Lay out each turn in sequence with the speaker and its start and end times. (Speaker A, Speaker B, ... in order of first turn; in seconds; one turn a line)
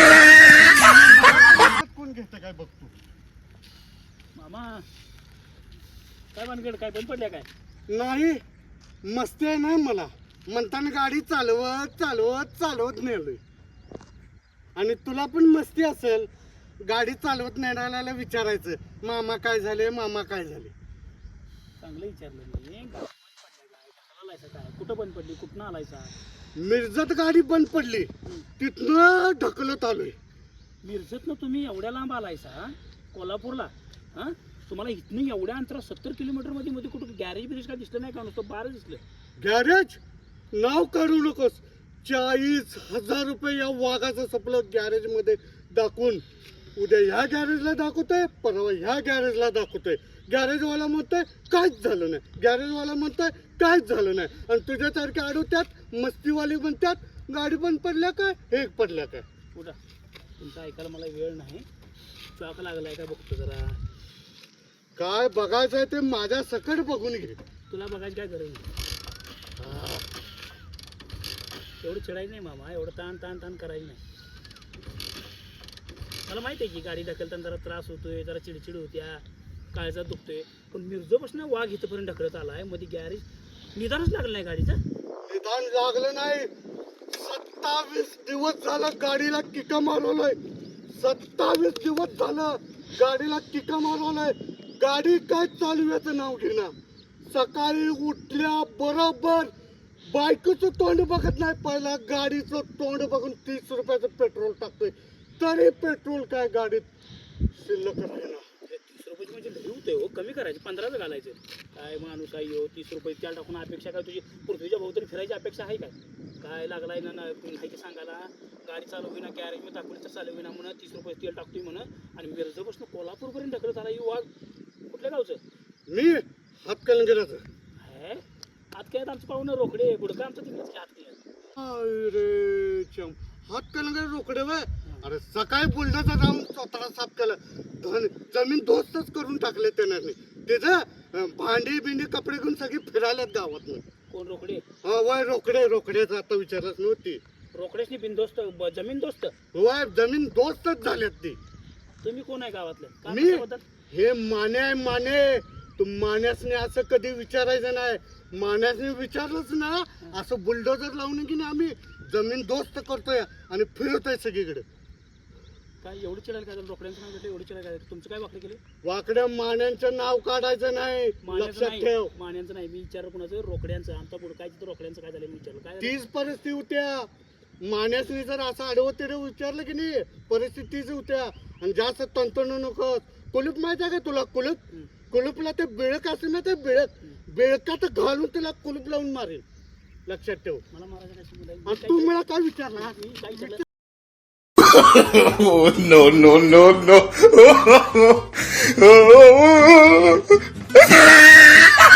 Speaker A: 0.5-2.9
Speaker B: 4.3-4.8
Speaker B: 6.3-7.5
Speaker A: 7.9-8.4
Speaker A: 9.0-13.4
Speaker A: 14.8-16.3
Speaker A: 16.8-20.7
Speaker B: 21.8-26.1
Speaker A: 26.6-30.1
Speaker B: 30.8-39.0
Speaker A: 39.4-40.0
Speaker A: 40.5-46.2
Speaker A: 46.8-59.2
Speaker B: 60.4-61.7
Speaker B: 62.4-63.8
Speaker A: 65.0-67.4
Speaker B: 67.7-68.7
Speaker A: 69.6-70.0
Speaker B: 71.8-74.0
Speaker B: 76.2-84.8
Speaker A: 85.3-86.5
Speaker A: 87.1-90.4
Speaker A: 90.9-96.7
Speaker A: 97.3-99.5
Speaker A: 100.0-106.8
Speaker A: 107.5-108.5
Speaker B: 108.6-124.3
Speaker B: 124.9-125.4
Speaker A: 125.9-127.4
Speaker B: 127.8-131.2
Speaker A: 131.6-143.8
Speaker B: 144.1-144.6
Speaker A: 144.8-147.2
Speaker B: 147.5-149.3
Speaker A: 149.5-151.4
Speaker B: 152.0-153.7
Speaker A: 153.1-164.6
Speaker B: 165.8-168.6
Speaker A: 168.8-172.1
Speaker B: 171.2-176.0
Speaker A: 175.8-177.1
Speaker A: 177.6-189.4
Speaker A: 190.1-190.6
Speaker B: 190.7-192.1
Speaker A: 191.7-193.6
Speaker B: 192.8-193.6
Speaker C: 194.7-200.4